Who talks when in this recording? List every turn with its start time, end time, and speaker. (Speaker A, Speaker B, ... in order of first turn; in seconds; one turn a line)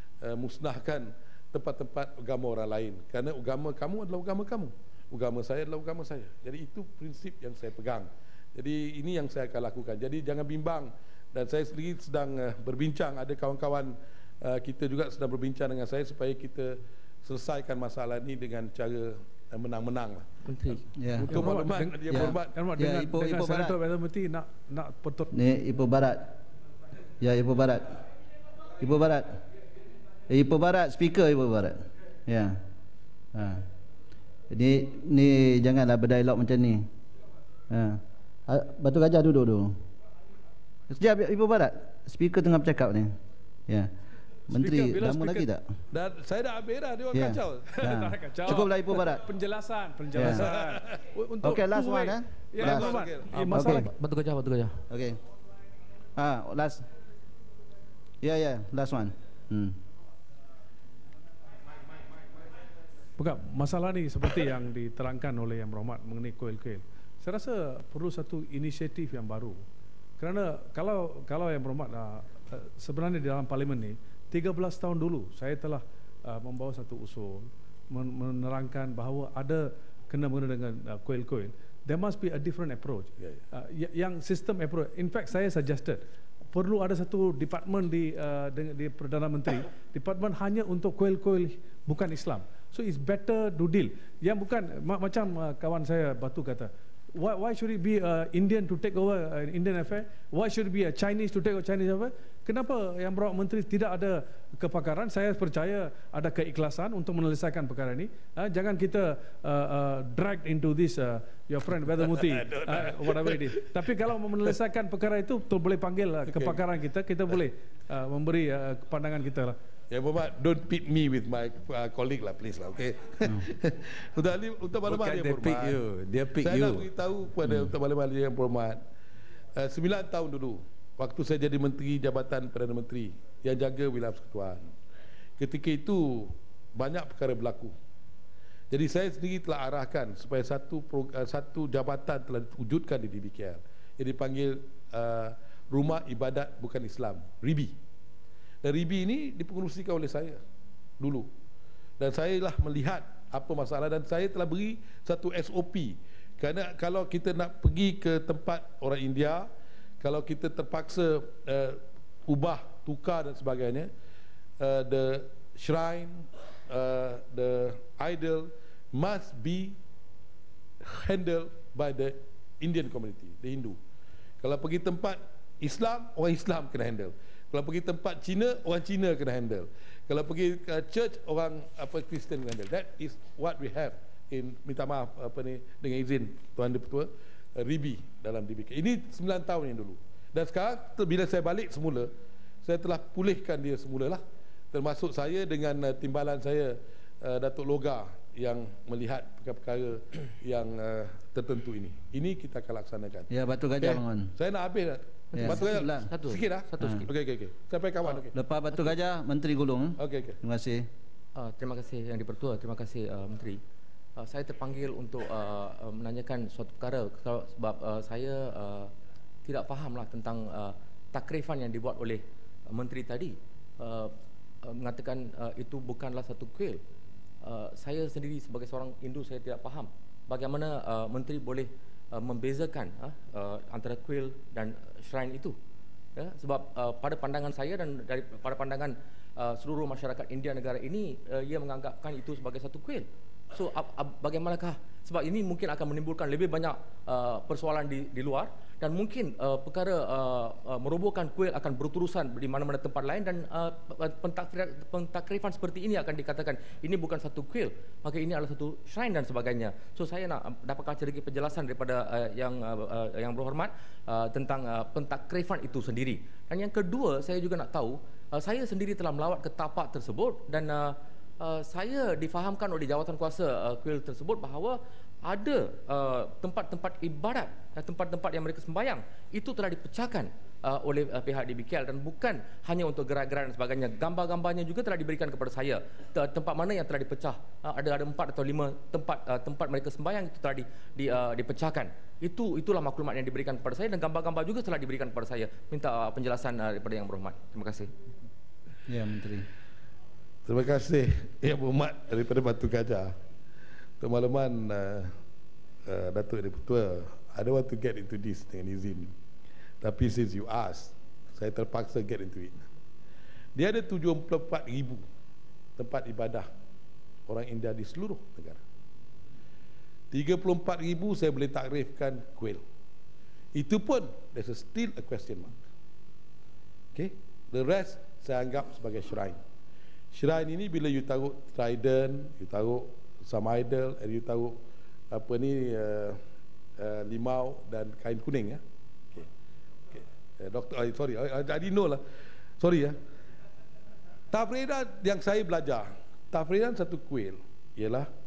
Speaker A: 0.2-22.6
Speaker B: 20.5-20.8
Speaker C: 21.0-21.4
Speaker D: 21.3-25.3
Speaker C: 22.1-23.7
Speaker C: 25.3-26.2
Speaker C: 27.2-27.8
Speaker C: 28.8-29.3
Speaker C: 30.3-32.6
Speaker C: 33.3-33.6
Speaker C: 34.5-36.8
Speaker C: 37.7-39.7
Speaker C: 40.9-43.1
Speaker C: 44.5-45.6
Speaker D: 44.5-45.5
Speaker A: 45.9-47.8
Speaker C: 47.1-49.2
Speaker D: 47.7-53.8
Speaker C: 50.1-50.5
Speaker A: 50.2-51.0
Speaker C: 51.4-53.0
Speaker A: 52.6-53.3
Speaker B: 53.3-54.7
Speaker C: 53.5-53.9
Speaker C: 54.9-55.2
Speaker C: 56.2-56.8
Speaker C: 58.2-59.7
Speaker D: 63.2-69.6
Speaker D: 70.2-86.0
Speaker D: 86.5-119.6
Speaker A: 111.8-113.7
Speaker A: 116.2-116.6
Speaker A: 119.9-125.8
Speaker E: 124.8-126.9
Speaker A: 126.3-128.8
Speaker A: 129.6-134.7
Speaker A: 135.4-137.7
Speaker A: 138.7-147.7
Speaker A: 148.6-150.4
Speaker A: 151.0-151.3
Speaker A: 152.0-159.5
Speaker A: 160.0-163.9
Speaker A: 164.6-169.8
Speaker A: 170.8-173.8
Speaker A: 174.4-192.1
Speaker A: 192.6-194.2
Speaker A: 194.7-203.3
Speaker C: 203.3-204.3
Speaker A: 203.8-208.3
Speaker B: 205.3-207.1
Speaker C: 205.4-206.1
Speaker C: 206.8-207.1
Speaker C: 208.3-210.8
Speaker A: 210.0-210.4
Speaker B: 211.3-213.6
Speaker B: 214.2-218.9
Speaker B: 219.4-224.1
Speaker B: 224.6-226.8
Speaker B: 227.4-235.5
Speaker B: 236.2-297.9
Speaker C: 298.9-299.4
Speaker A: 300.4-303.1
Speaker A: 304.0-305.1
Speaker A: 305.9-309.1
Speaker A: 309.8-312.7
Speaker A: 313.6-315.0
Speaker A: 315.8-316.5
Speaker A: 317.3-318.6
Speaker A: 320.1-322.6
Speaker A: 323.5-325.6
Speaker A: 326.9-329.4
Speaker A: 330.1-334.6
Speaker A: 335.1-336.2
Speaker A: 336.8-338.6
Speaker A: 339.9-342.0
Speaker A: 342.6-342.9
Speaker A: 344.3-348.1